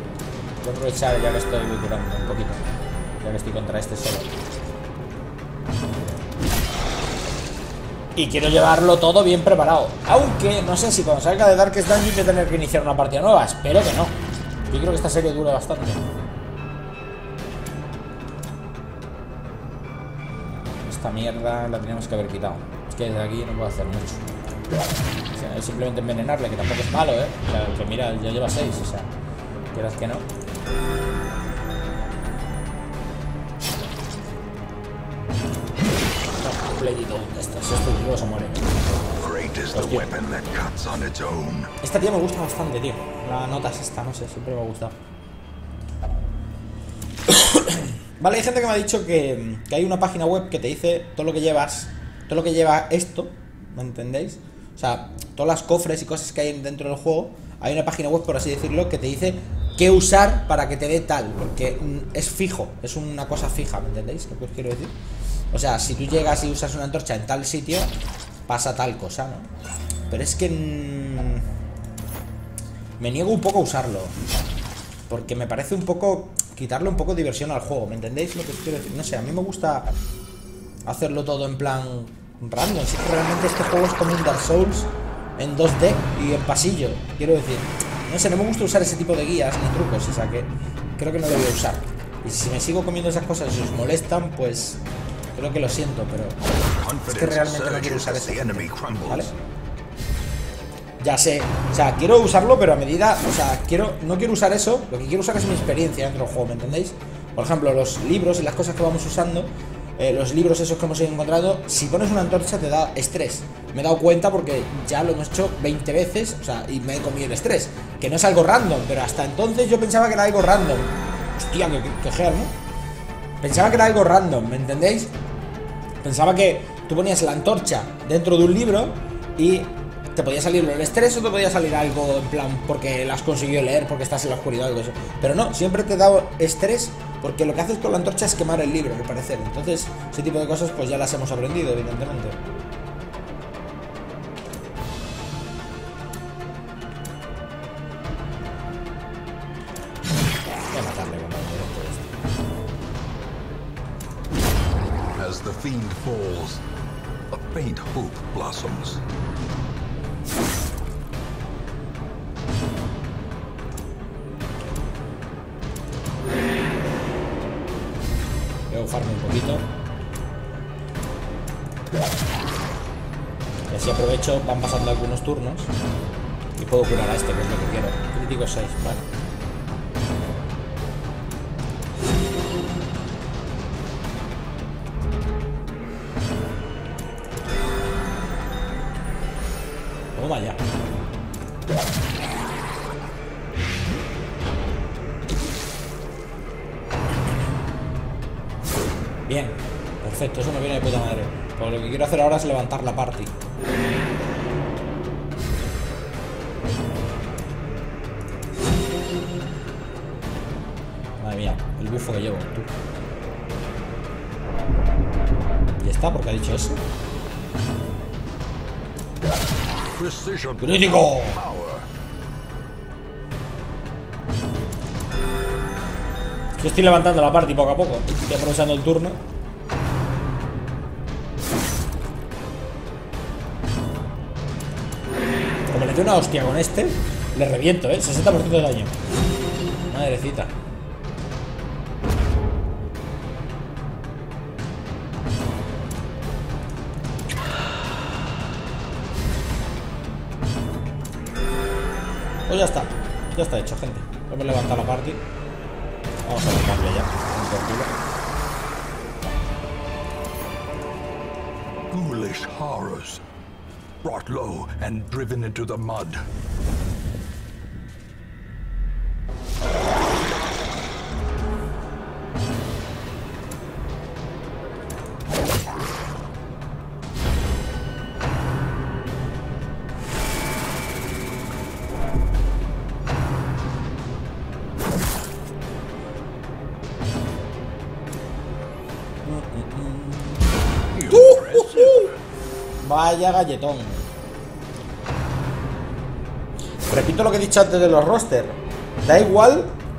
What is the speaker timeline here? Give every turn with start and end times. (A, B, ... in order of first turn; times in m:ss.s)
0:00.6-0:04.3 A
0:08.2-0:14.2 A
0:14.7-0:16.0 A
0:20.3-0:24.3 A
0:25.3-0:29.1 A
0:29.7-0:30.3 A
0:36.4-0:38.8 A
0:39.2-0:41.7 B
0:39.7-0:40.1 A
0:41.8-0:45.0 A
0:47.3-1:05.0 A
1:05.5-1:07.9 A
1:08.5-1:09.5 A
1:10.1-1:11.4 A
1:13.0-1:14.2 A
1:15.1-1:19.9 A
1:20.9-1:34.8 A
1:35.4-1:36.4 A
1:36.6-1:39.3 B
1:37.1-1:39.3 A
1:41.0-2:02.5 A
2:03.4-2:05.1 A
2:06.0-2:22.4 A
2:30.7-2:32.3 A
2:35.2-2:36.6 B
2:37.3-2:39.0 B
2:48.7-2:49.7 A
2:53.7-2:55.7 A
2:56.6-2:59.1 A
3:10.2-3:10.6 A
3:19.3-3:23.3 A
3:31.2-3:32.7 A
3:35.8-3:36.8 A
3:40.0-3:41.9 B
3:40.6-3:41.4 A
3:46.6-3:49.2 A
3:55.7-3:59.0 A
3:59.9-4:00.5 A
4:12.5-4:15.2 A
4:16.2-4:17.9 A
4:21.9-4:23.2 B
4:24.0-4:26.3 B
4:49.2-4:50.5 A
4:50.9-4:52.2 B
4:51.1-4:52.1 A
4:52.8-4:54.1 A
4:56.9-4:59.8 A